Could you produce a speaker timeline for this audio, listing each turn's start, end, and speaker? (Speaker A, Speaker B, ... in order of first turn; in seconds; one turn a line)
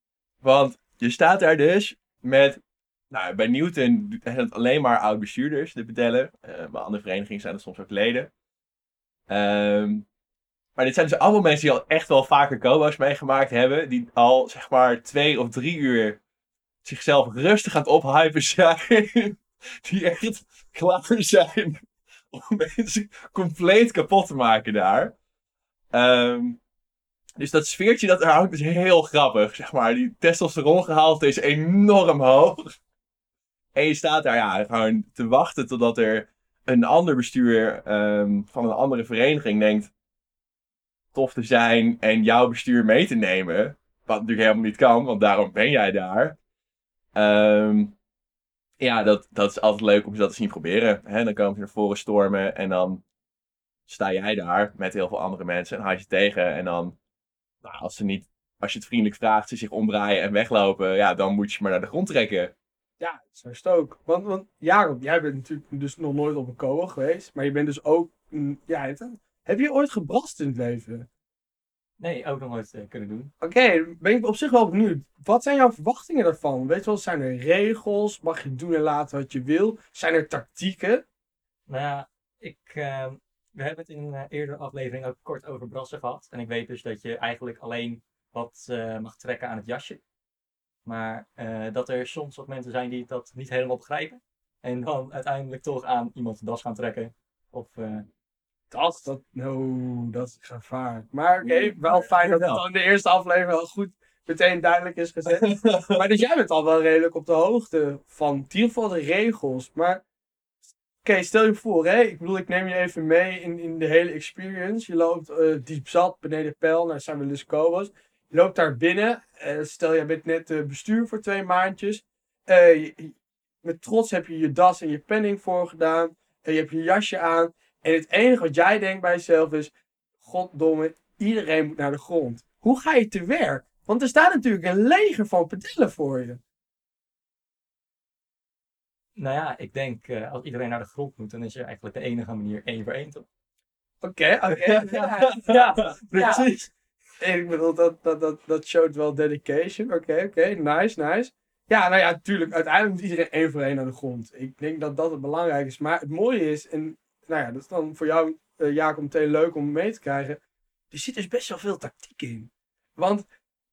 Speaker A: 0.4-8.3
Speaker A: 9.3-10.1
Speaker A: 10.8-16.2
Speaker A: 16.8-25.1
Speaker A: 25.9-26.6
Speaker A: 27.4-32.7
Speaker A: 33.7-39.9
Speaker A: 41.1-46.4
Speaker A: 47.1-47.9
Speaker A: 48.8-53.0
Speaker A: 53.9-57.0
Speaker A: 57.6-62.5
Speaker B: 63.0-71.1
Speaker C: 72.0-73.3
Speaker B: 73.4-81.0
Speaker C: 81.7-90.0
Speaker C: 90.8-98.1
Speaker B: 98.7-110.0
Speaker A: 101.4-102.6
Speaker A: 105.3-106.0
Speaker B: 111.0-136.4
Speaker C: 139.2-143.2
Speaker B: 144.0-145.6
Speaker A: 144.5-146.7
Speaker C: 145.4-146.5
Speaker B: 146.1-146.5
Speaker B: 147.2-160.4
Speaker B: 160.9-163.2